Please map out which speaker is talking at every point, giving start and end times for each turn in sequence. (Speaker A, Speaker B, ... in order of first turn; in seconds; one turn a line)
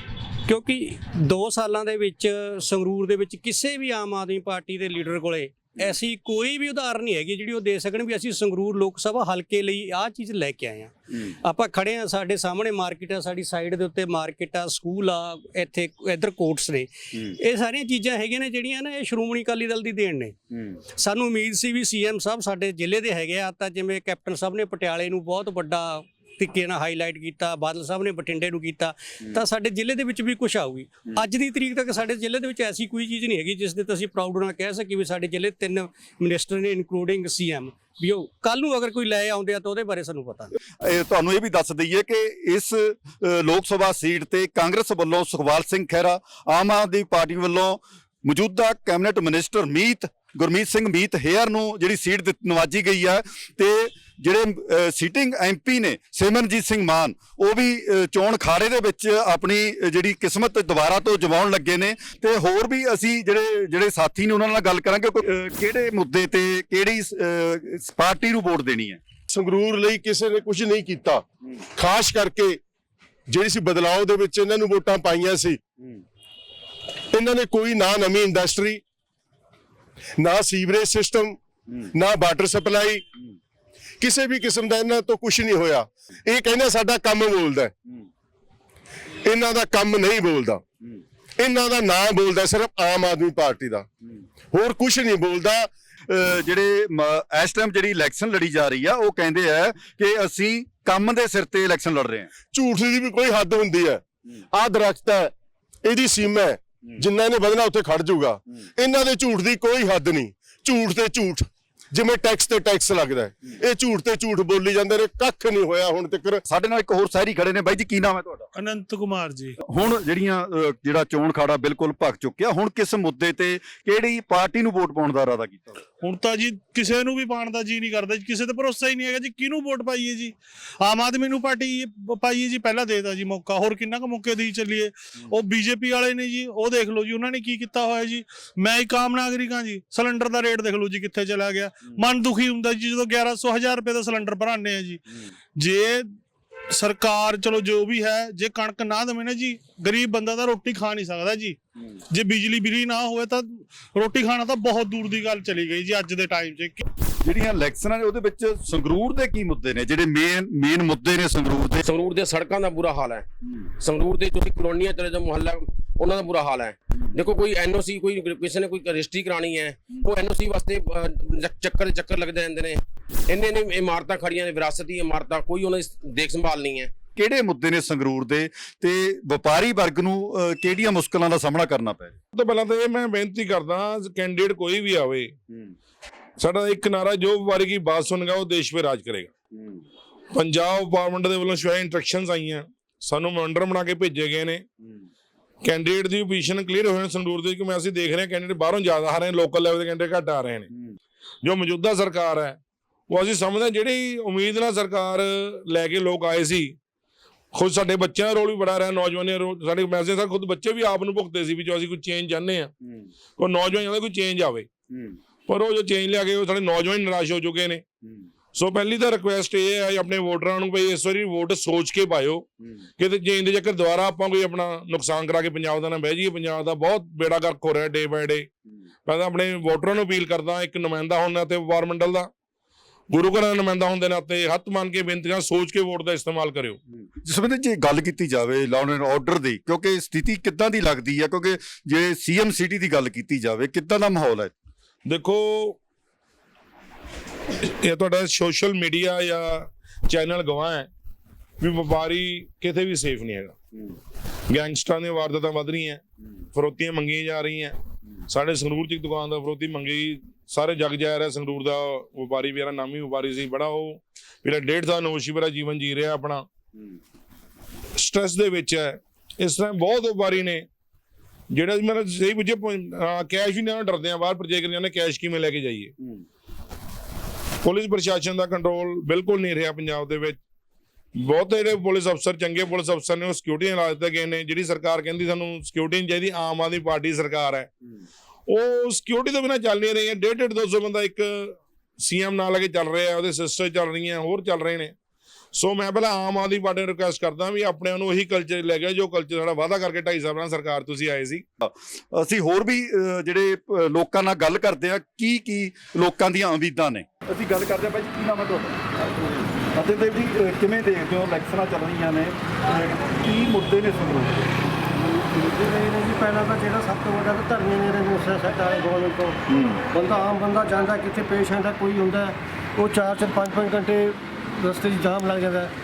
Speaker A: 0.4-20.4
Speaker A: 20.9-40.5
Speaker B: 40.8-69.0
Speaker C: 69.3-71.2
Speaker C: 71.8-72.6
Speaker C: 73.3-75.6
Speaker C: 77.1-78.8
Speaker C: 80.2-81.4
Speaker C: 81.9-83.0
Speaker C: 84.0-87.7
Speaker C: 89.2-90.6
Speaker C: 91.4-93.9
Speaker C: 94.5-95.7
Speaker B: 96.1-102.3
Speaker C: 102.5-105.3
Speaker C: 105.8-116.4
Speaker B: 116.5-118.5
Speaker D: 118.5-119.5
Speaker B: 119.6-125.8
Speaker D: 126.0-145.0
Speaker D: 145.6-146.1
Speaker D: 146.7-151.6
Speaker D: 152.1-156.8
Speaker B: 157.2-161.9
Speaker E: 161.8-163.2
Speaker E: 163.8-176.9
Speaker B: 177.2-182.2
Speaker F: 182.3-185.3
Speaker F: 186.4-189.3
Speaker F: 190.3-194.7
Speaker F: 195.6-200.7
Speaker F: 201.4-206.8
Speaker F: 207.5-212.7
Speaker F: 213.4-214.7
Speaker F: 215.5-217.8
Speaker F: 218.6-228.5
Speaker F: 229.1-232.3
Speaker F: 233.1-236.8
Speaker B: 237.2-244.5
Speaker F: 245.1-245.8
Speaker F: 247.6-250.9
Speaker F: 251.6-253.6
Speaker F: 254.5-256.0
Speaker F: 256.5-257.8
Speaker F: 258.3-266.4
Speaker F: 267.9-270.7
Speaker F: 271.5-275.9
Speaker F: 277.6-280.4
Speaker F: 281.1-287.7
Speaker F: 288.5-294.9
Speaker F: 295.5-301.4
Speaker B: 301.6-314.4
Speaker G: 315.0-319.4
Speaker B: 319.5-319.8
Speaker G: 319.9-325.7